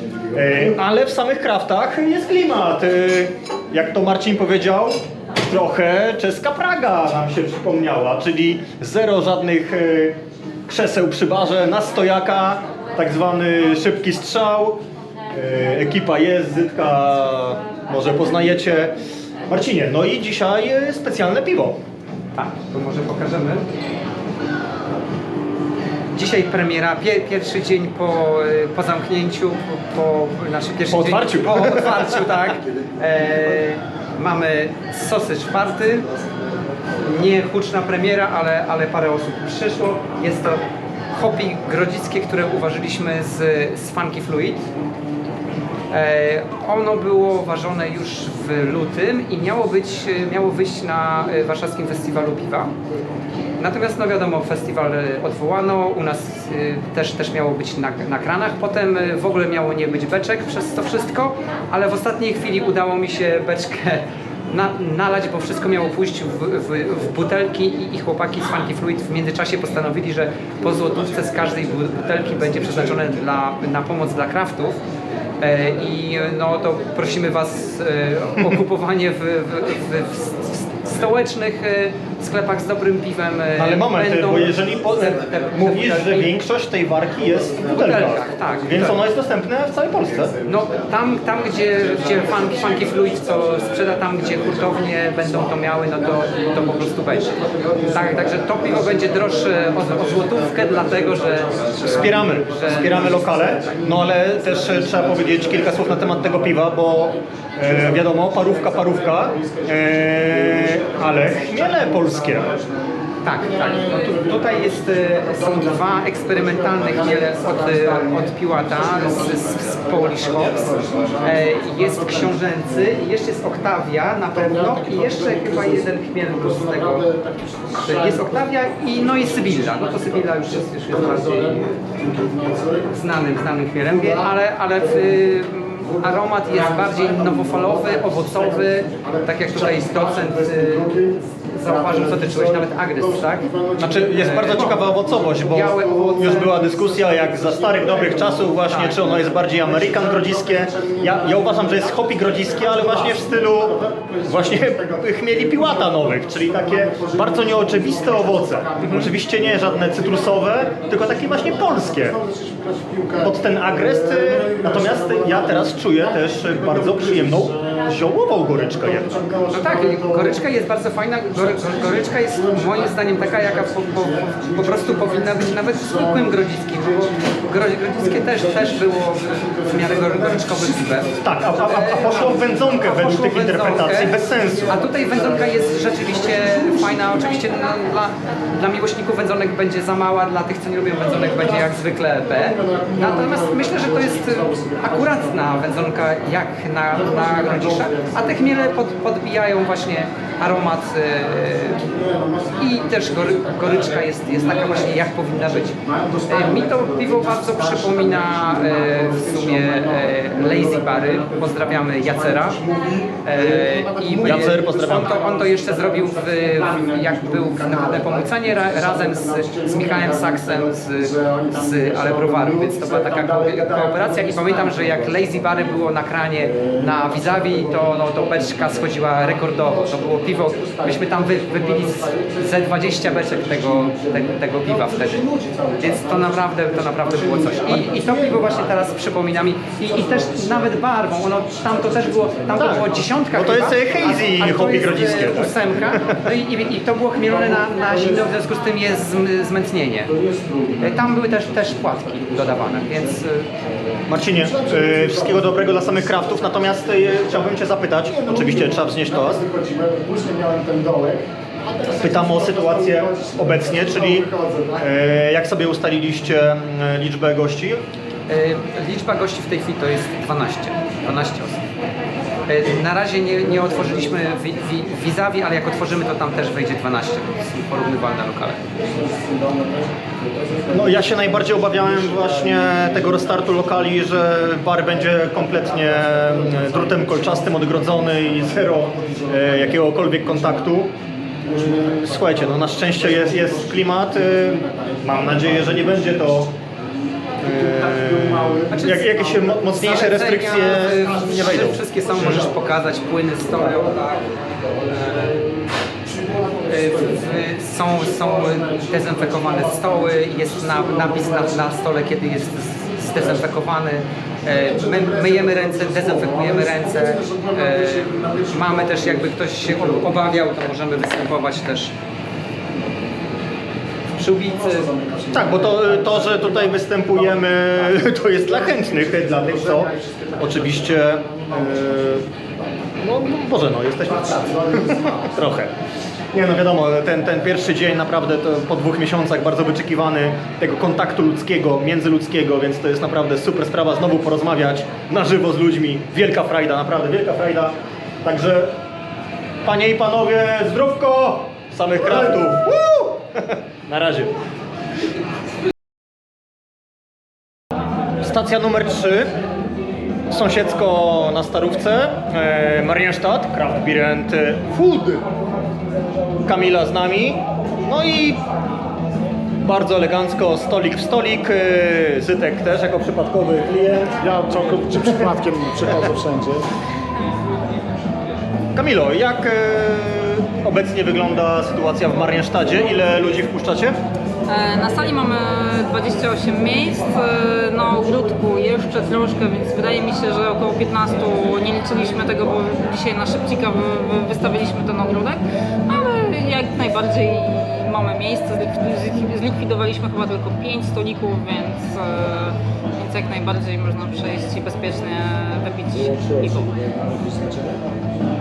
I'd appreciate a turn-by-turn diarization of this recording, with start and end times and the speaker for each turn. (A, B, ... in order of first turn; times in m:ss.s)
0:00.3-0:14.8 A
0:15.3-0:18.9 A
0:19.5-0:21.8 A
0:22.3-0:23.7 B
0:26.1-0:36.1 B
0:30.9-0:32.3 A
0:37.0-0:44.7 B
0:45.9-0:52.7 B
0:53.6-1:14.8 B
1:15.4-1:26.4 B
1:23.5-1:30.4 A
1:27.7-1:29.0 B
1:30.4-1:43.8 B
1:36.3-1:39.6 C
1:41.3-1:44.0 C
1:41.9-1:52.6 A
1:44.5-2:02.9 C
1:53.2-2:07.1 B
2:04.3-2:08.4 C
2:07.8-2:11.8 B
2:09.1-2:12.9 C
2:12.9-2:26.7 B
2:13.9-2:15.1 C
2:15.8-2:24.3 C
2:23.9-2:42.2 A
2:24.9-2:47.9 C
2:28.7-2:29.1 B
2:43.2-2:49.2 A
2:48.5-2:50.4 C
2:49.5-3:21.9 B
2:51.4-3:01.5 C
3:01.2-3:04.8 A
3:04.3-3:07.4 C
3:11.0-3:11.6 C
3:12.4-3:15.4 C
3:16.9-3:18.8 C
3:21.9-3:24.8 C
3:22.6-3:32.6 B
3:25.8-3:45.8 C
3:33.2-3:55.3 B
3:34.2-3:35.2 A
3:46.4-4:00.8 C
3:55.8-4:10.1 B
4:01.5-4:03.3 C
4:02.6-4:06.2 A
4:07.2-4:08.2 C
4:10.1-4:13.1 C
4:10.8-4:13.5 B
4:14.1-4:19.4 A
4:14.4-4:17.5 C
4:18.1-4:24.9 C
4:22.0-4:24.3 A
4:24.8-4:27.8 A
4:28.3-4:31.6 B
4:32.5-4:38.6 B
4:38.8-4:43.9 C
4:40.7-4:50.9 A
4:45.5-4:50.7 C
4:51.4-4:56.3 C
4:51.9-4:56.5 A
4:57.4-4:58.8 C
4:57.4-5:02.5 A
4:58.7-5:05.4 B
4:59.4-4:59.6 C
5:02.0-5:02.6 C
5:03.5-5:03.9 C
5:06.0-5:11.7 C
5:06.6-5:21.9 B
5:13.1-5:13.4 C
5:14.6-5:20.1 C
5:24.2-5:24.9 B
5:24.4-5:27.4 C
5:25.3-5:32.3 A
5:27.9-5:31.0 C
5:33.0-5:35.7 A
5:34.0-5:35.4 C
5:36.3-5:48.7 A
5:49.6-5:54.3 A
5:58.2-5:59.3 A
6:00.3-6:05.2 A
6:06.5-6:08.4 A
6:09.6-6:14.2 A
6:14.2-6:16.7 C
6:18.8-6:24.0 A
6:24.5-6:46.8 D
6:46.2-6:47.8 C